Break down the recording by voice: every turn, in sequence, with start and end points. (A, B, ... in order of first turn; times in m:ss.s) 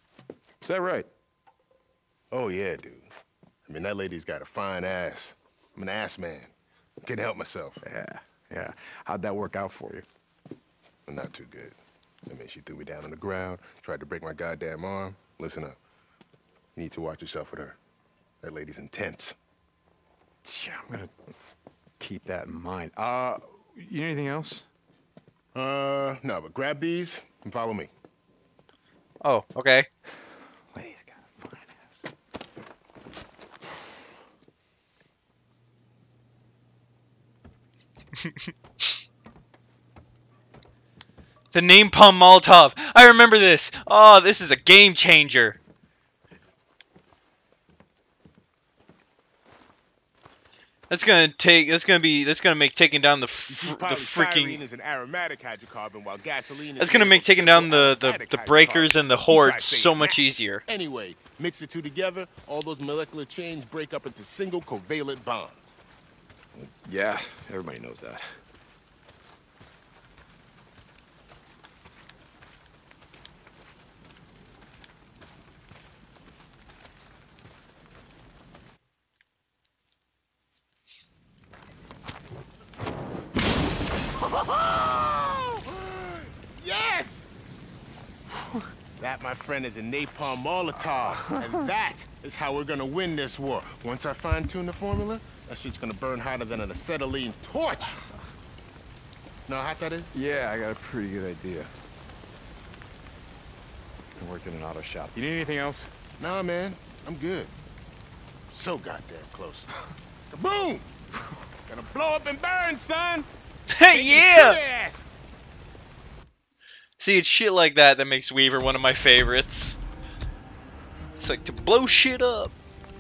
0:00.6-0:01.1 A
0:02.3-0:03.1 B
0:03.6-0:06.5 B
0:07.0-0:07.8 B
0:07.8-0:10.1 A
0:11.1-0:15.8 B
0:16.7-0:17.8 B
0:18.4-0:19.4 B
0:20.4-0:21.1 A
0:22.0-0:24.7 A
0:25.5-0:27.9 B
0:29.2-0:29.9 C
0:30.7-0:32.0 A
0:38.2-0:38.9 C
0:41.5-0:45.6 C
0:50.9-0:54.6 C
0:53.5-1:05.8 B
0:56.8-1:00.6 C
1:06.6-1:08.4 A
1:24.6-1:27.3 B
1:29.0-1:38.0 B
1:39.5-1:40.1 B
1:40.1-1:41.7 A
1:44.2-1:45.9 A
1:46.2-1:47.5 B
1:48.5-1:49.7 B
1:50.3-1:50.9 B
1:51.7-1:53.3 B
1:53.7-1:54.6 C
1:53.9-1:55.2 B
1:57.0-1:59.8 C
2:01.2-2:02.5 C